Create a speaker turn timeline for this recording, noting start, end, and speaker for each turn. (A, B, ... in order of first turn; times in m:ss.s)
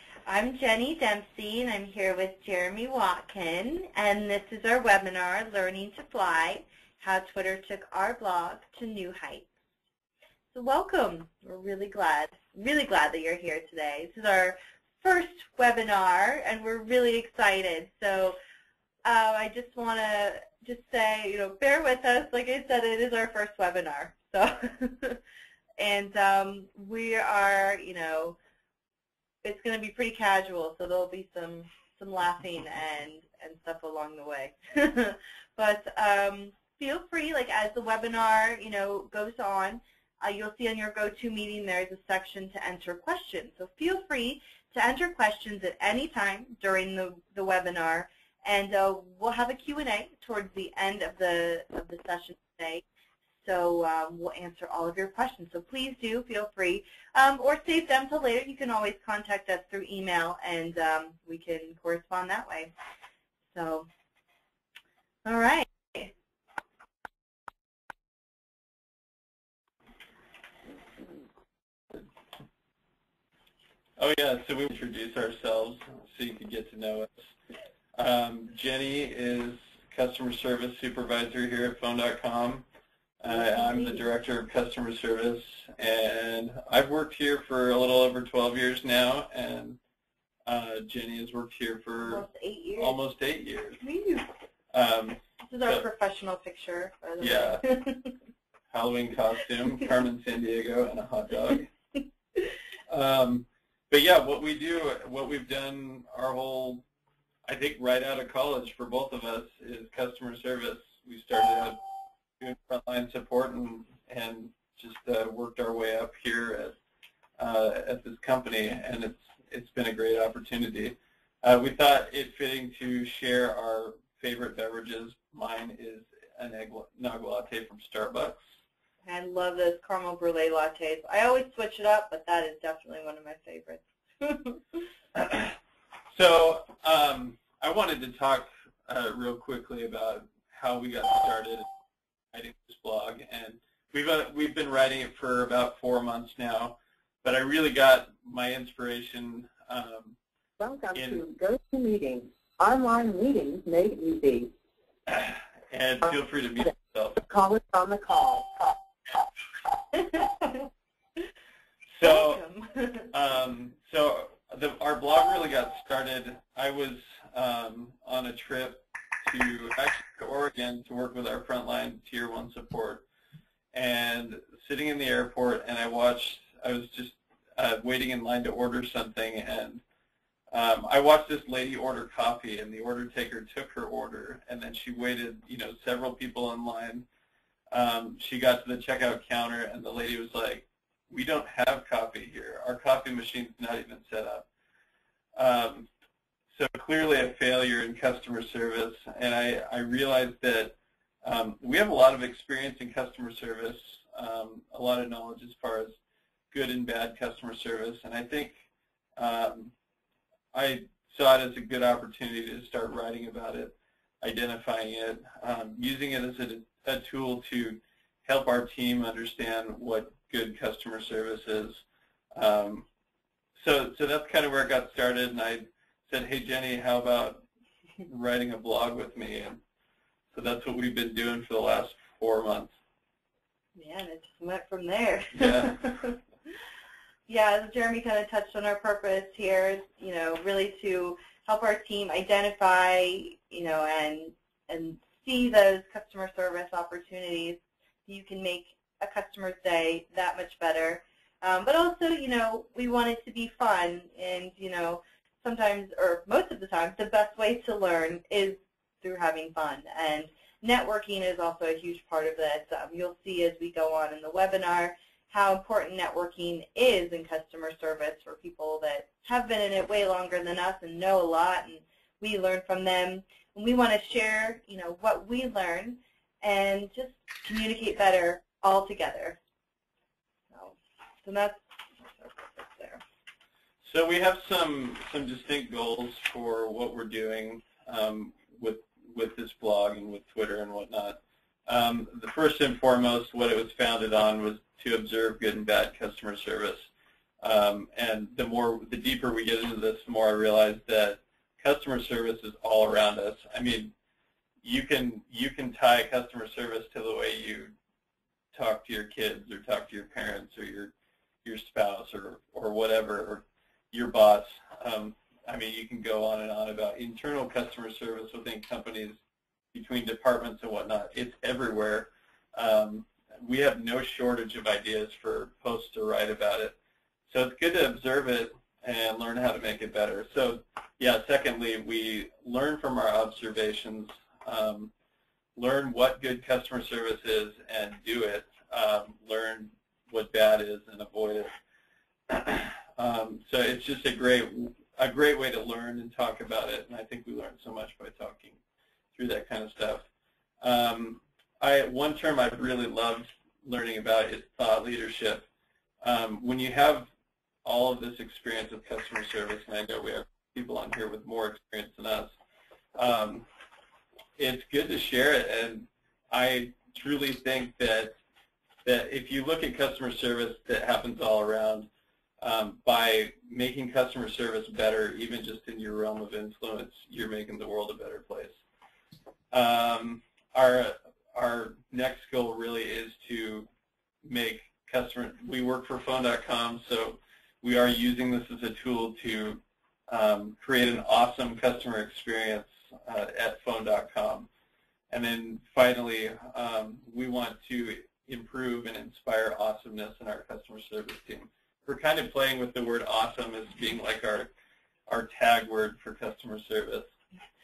0:00.2-0:09.5 A
0:10.5-0:18.4 A
0:19.0-0:25.2 A
0:25.8-0:28.4 A
0:29.4-0:52.8 A
0:53.4-1:02.7 A
1:03.5-1:03.9 A
1:05.2-1:06.1 A
1:14.0-1:17.3 B
1:17.9-1:22.6 B
1:23.2-1:29.8 B
1:23.3-1:24.0 A
1:30.5-1:32.2 B
1:32.0-1:33.0 A
1:32.8-1:33.8 B
1:33.8-1:34.2 A
1:34.7-1:35.8 B
1:35.4-1:38.1 A
1:37.2-1:37.6 B
1:38.7-1:41.7 B
1:42.9-1:46.8 B
1:47.4-1:51.8 B
1:52.4-1:56.8 B
1:57.4-2:08.4 B
2:09.0-2:14.6 A
2:15.1-2:15.6 B
2:16.1-2:21.6 B
2:22.3-2:30.2 B
2:30.6-2:34.5 C
2:35.1-2:37.2 B
2:37.2-2:38.7 C
2:41.9-2:42.4 B
2:42.0-2:43.1 A
2:43.1-2:53.0 B
2:53.7-2:59.8 B
3:00.5-3:07.0 B
3:07.7-3:14.4 B
3:15.4-3:15.9 B
3:16.5-3:26.0 B
3:26.5-3:28.6 B
3:29.2-3:29.7 B
3:30.5-3:41.8 B
3:42.3-3:42.8 B
3:43.6-3:47.4 B
3:48.1-3:49.6 B
3:50.3-3:52.7 B
3:53.8-3:56.2 A
3:55.3-3:55.8 B
3:57.3-4:39.4 A
4:40.5-4:43.0 A
4:43.8-4:56.9 B
4:57.4-5:03.9 B
5:04.6-5:07.7 B
5:08.5-5:10.9 B
5:11.4-5:19.2 B
5:19.7-5:26.7 B
5:27.3-5:34.9 B
5:35.5-5:41.5 B
5:42.3-5:48.6 B
5:49.1-5:50.1 B
5:50.6-5:55.4 B
5:56.0-5:57.1 B
5:57.6-6:02.3 B
6:03.0-6:03.5 B
6:04.4-6:08.2 B
6:08.8-6:11.9 B
6:12.4-6:18.6 B
6:19.5-6:23.7 B
6:24.2-6:34.5 B
6:35.1-6:44.5 B
6:45.1-6:47.1 B